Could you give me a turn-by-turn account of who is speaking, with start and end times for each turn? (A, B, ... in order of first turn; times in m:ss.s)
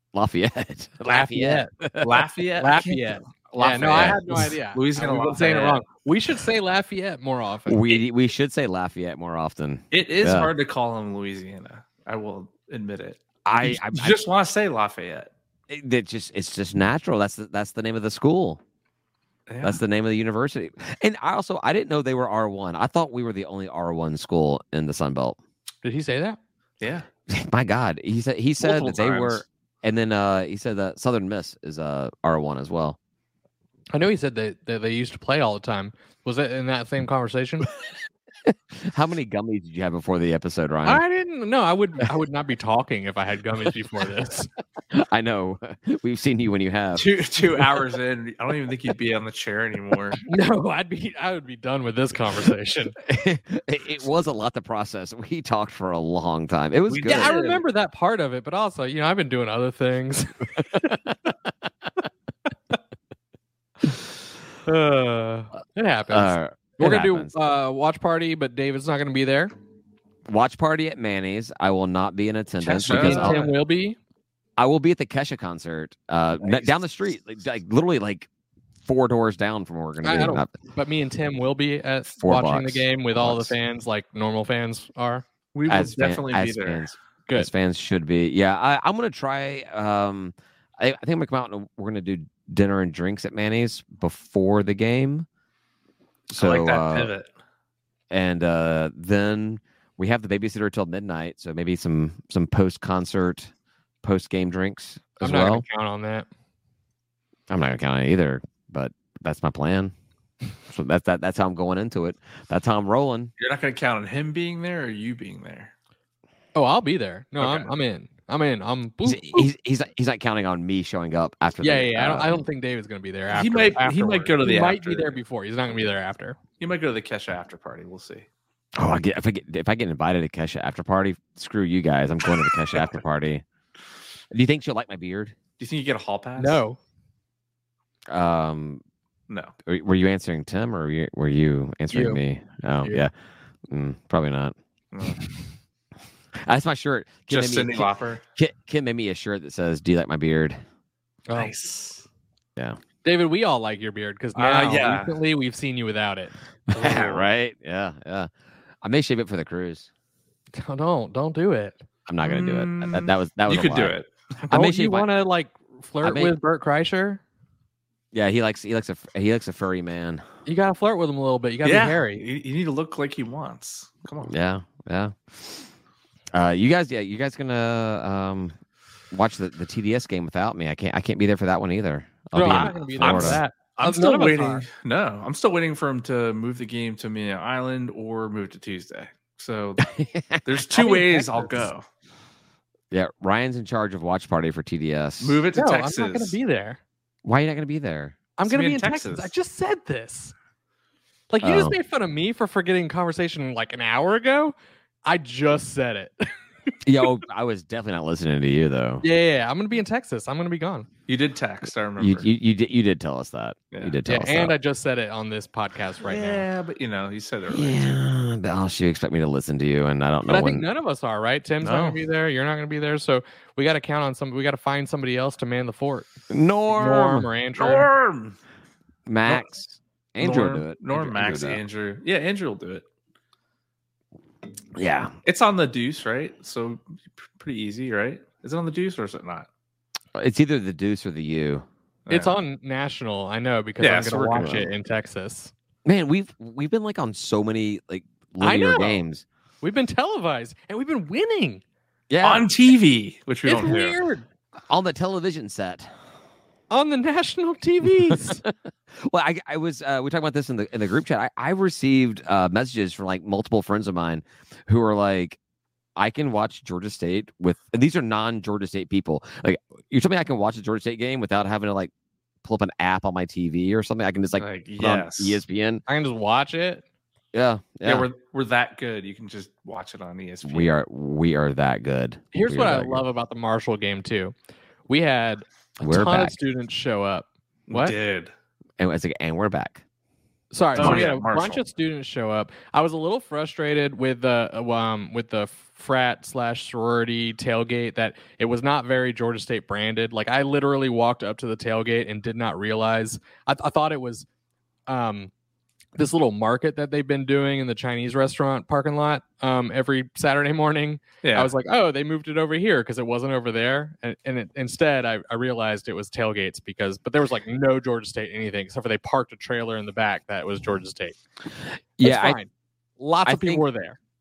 0:00.1-0:02.2 A
0:01.1-0:01.7 B
0:02.0-0:05.8 C
0:02.6-0:08.0 B
0:03.8-0:04.2 A
0:07.7-0:10.5 A
0:09.9-0:15.3 C
0:13.4-0:14.2 A
0:15.7-0:18.6 A
0:19.5-0:19.8 C
0:19.6-0:25.4 A
0:25.8-0:26.4 B
0:26.8-0:27.1 C
0:27.3-0:33.0 A
0:28.6-0:29.4 C
0:33.9-0:37.7 B
0:38.5-0:41.0 A
0:40.8-0:44.5 B
0:44.9-0:47.1 A
0:47.0-0:50.2 C
0:50.3-0:53.0 B
0:53.0-0:57.3 A
0:56.9-0:57.6 C
0:57.0-1:01.0 B
1:04.7-1:09.5 B
1:06.1-1:07.3 A
1:10.3-1:13.5 A
1:12.6-1:13.5 C
1:12.9-1:14.0 B
1:14.6-1:18.3 A
1:18.8-1:20.6 A
1:20.0-1:25.2 B
1:22.2-1:23.6 A
1:25.5-1:26.9 C
1:25.7-1:35.3 A
1:36.3-1:37.1 A
1:36.4-1:37.3 C
1:38.1-1:43.5 A
1:44.0-1:45.6 A
1:45.2-1:46.3 B
1:47.5-1:49.9 A
1:50.7-1:53.3 A
1:53.4-1:55.7 C
1:56.6-1:59.5 B
1:57.4-1:57.7 C
1:59.0-2:02.4 A
2:01.6-2:06.4 B
2:03.3-2:05.2 C
2:06.6-2:08.3 C
2:08.8-2:13.4 A
2:14.3-2:15.4 A
2:15.6-2:16.6 C
2:16.4-2:16.8 B
2:18.1-2:18.8 A
2:19.7-2:23.1 A
2:21.9-2:22.2 B
2:23.7-2:24.6 A
2:24.9-2:25.2 C
2:26.4-2:30.6 A
2:27.3-2:28.2 C
2:31.3-2:31.6 B
2:31.3-2:32.0 C
2:33.0-2:36.3 B
2:34.4-2:35.2 C
2:36.7-2:37.3 C
2:36.7-2:38.3 A
2:38.8-2:39.9 A
2:40.6-2:41.8 B
2:42.1-2:44.0 A
2:42.2-2:44.5 C
2:44.5-2:45.1 A
2:44.5-2:47.2 B
2:46.0-2:46.4 A
2:48.1-2:50.2 A
2:50.5-2:52.2 B
2:51.6-2:54.3 C
2:54.3-2:55.7 A
2:56.3-2:58.6 A
2:59.1-3:03.4 A
3:02.3-3:04.7 B
3:02.5-3:09.9 C
3:09.9-3:10.4 A
3:10.4-3:11.8 C
3:10.7-3:11.7 B
3:12.9-3:15.4 A
3:15.2-3:16.4 C
3:15.6-3:16.8 B
3:17.2-3:18.2 A
3:18.4-3:20.3 B
3:18.5-3:19.3 C
3:21.3-3:24.5 B
3:21.4-3:21.8 A
3:25.0-3:26.3 B
3:26.8-3:29.0 A
3:29.0-3:30.9 B
3:31.1-3:32.3 C
3:32.0-3:34.5 A
3:33.7-3:34.0 C
3:34.1-3:36.5 B
3:36.0-3:38.0 C
3:37.5-3:40.7 A
3:40.3-3:46.1 B
3:41.6-3:42.0 C
3:46.3-3:47.3 A
3:46.7-3:47.9 B
3:47.6-3:48.4 C
3:49.1-3:51.6 A
3:50.2-3:52.8 C
3:54.8-3:55.1 A
3:55.2-3:56.8 C
3:57.4-3:59.5 C
4:00.2-4:01.7 A
4:02.1-4:02.4 C
4:02.1-4:05.5 B
4:03.8-4:04.6 C
4:04.4-4:04.7 A
4:05.8-4:09.2 A
4:08.4-4:09.0 B
4:09.6-4:11.6 B
4:12.1-4:12.5 A
4:12.2-4:14.0 C
4:13.4-4:14.3 B
4:14.7-4:15.9 A
4:16.7-4:18.4 B
4:18.1-4:25.4 A
4:26.0-4:31.9 A
4:32.4-4:35.8 A
4:34.4-4:35.4 C
4:35.9-4:36.8 B
4:37.3-4:38.1 A
4:37.8-4:40.7 C
4:40.4-4:43.0 A
4:42.3-4:44.3 B
4:44.9-4:48.0 B
4:45.8-4:46.4 A
4:47.7-4:48.3 C
4:48.8-4:49.8 A
4:50.5-5:04.3 B
4:50.8-4:51.1 A
4:50.8-4:51.6 C
5:04.9-5:05.3 B
5:06.0-5:21.2 B
5:11.2-5:11.5 C
5:22.0-5:22.4 A
5:22.0-5:24.0 B
5:23.2-5:23.6 A